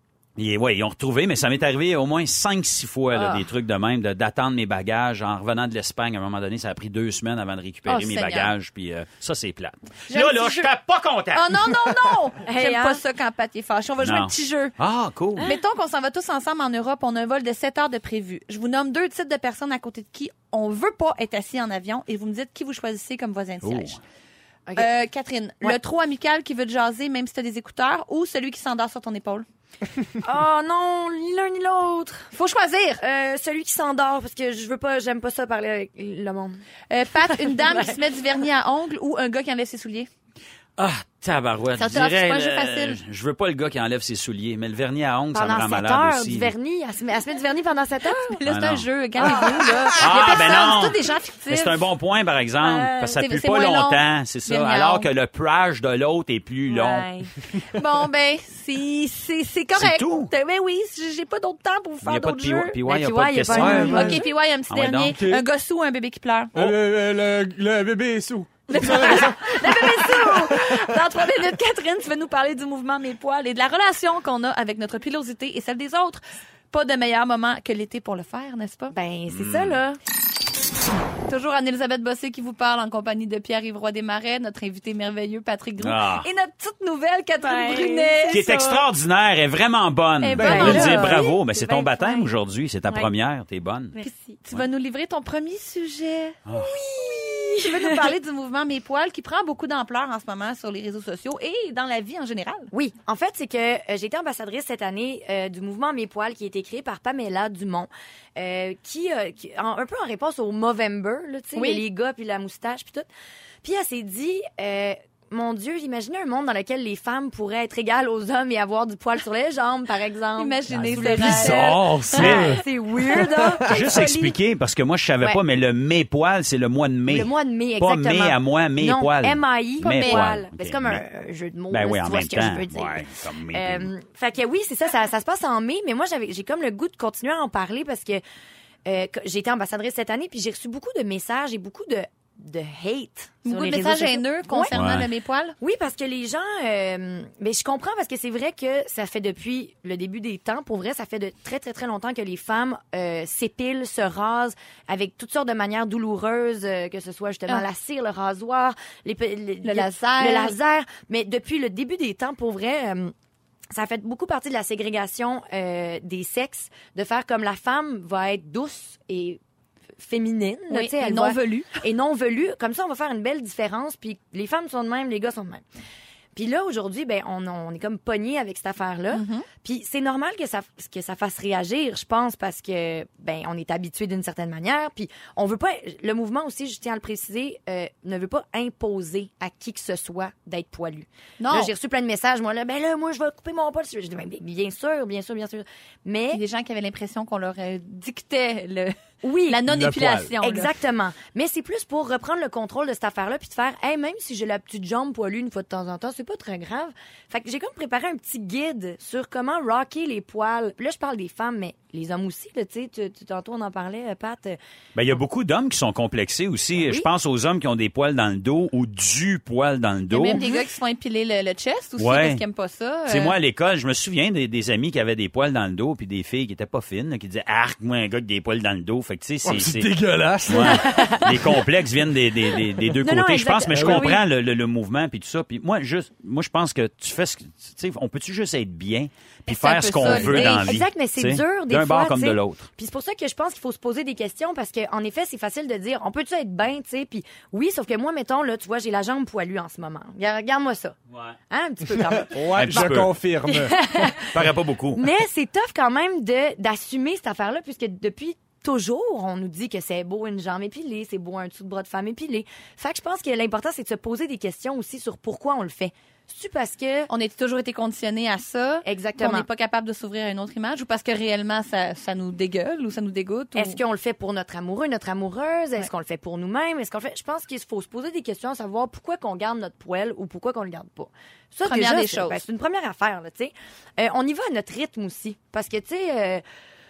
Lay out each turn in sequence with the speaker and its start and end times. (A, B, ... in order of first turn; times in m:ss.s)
0:00.4-0:11.6 A
0:03.1-0:03.5 B
0:07.8-0:08.5 B
0:10.1-0:10.7 B
0:11.3-0:14.7 B
0:12.4-0:13.0 C
0:14.0-0:15.5 A
0:15.4-0:24.0 B
0:23.6-0:24.0 A
0:24.8-0:29.4 B
0:30.2-0:32.3 C
0:32.3-0:33.0 B
0:33.0-0:36.6 C
0:36.9-0:40.1 B
0:37.3-0:38.0 C
0:40.8-0:46.5 A
0:41.8-0:43.0 B
0:45.3-0:48.4 C
0:48.0-0:51.8 B
0:48.4-0:48.8 A
0:50.0-0:51.0 A
0:51.5-0:57.1 A
0:52.6-0:55.1 B
0:56.7-1:02.8 B
0:59.7-1:00.3 A
1:02.0-1:04.1 A
1:02.8-1:04.2 C
1:03.5-1:04.2 D
1:03.8-1:06.7 B
1:04.7-1:05.2 A
1:05.1-1:05.4 D
1:06.5-1:09.6 D
1:08.7-1:18.9 B
1:09.7-1:10.3 C
1:18.9-1:20.0 C
1:19.3-1:19.8 A
1:21.3-1:28.8 B
1:25.8-1:26.3 A
1:27.4-1:28.2 C
1:28.3-1:34.0 A
1:30.2-1:31.3 B
1:30.4-1:31.0 D
1:30.4-1:32.3 C
1:34.0-1:34.4 C
1:34.0-1:36.4 B
1:36.5-1:36.8 A
1:36.6-1:38.1 C
1:37.6-1:42.7 B
1:42.7-1:53.1 C
1:51.5-1:51.8 B
1:53.6-2:04.4 C
2:00.4-2:02.5 B
2:00.7-2:03.8 D
2:01.2-2:02.6 A
2:03.6-2:11.0 A
2:07.1-2:18.2 C
2:09.8-2:10.2 B
2:11.7-2:13.9 A
2:18.8-2:24.8 C
2:23.4-2:25.6 B
2:24.7-2:25.1 A
2:25.6-2:43.1 C
2:39.6-2:40.6 B
2:43.7-2:49.4 C
2:50.0-2:55.6 C
2:50.7-2:51.8 B
2:56.3-3:16.4 C
2:59.1-2:59.5 B
3:11.4-3:11.7 B
3:16.3-3:19.0 B
3:19.2-3:19.6 C
3:19.5-3:20.7 B
3:19.7-3:20.3 D
3:20.4-3:34.6 C
3:34.9-3:40.4 A
3:36.8-3:37.1 C
3:40.1-3:43.3 B
3:40.3-3:40.6 C
3:42.0-3:42.4 A
3:43.1-3:50.0 A
3:49.4-3:51.3 D
3:50.5-4:02.7 A
3:50.7-3:51.5 C
3:53.0-3:54.2 C
3:53.7-3:54.2 D
3:59.4-4:00.8 B
4:00.0-4:00.4 D
4:00.1-4:11.0 C
4:11.5-4:13.0 C
4:12.0-4:14.0 D
4:12.5-4:13.1 A
4:13.5-4:14.4 C
4:14.2-4:15.0 A
4:14.9-4:27.1 C
4:27.1-4:33.8 B
4:28.8-4:29.5 C
4:33.5-4:46.4 C
4:41.6-4:42.4 B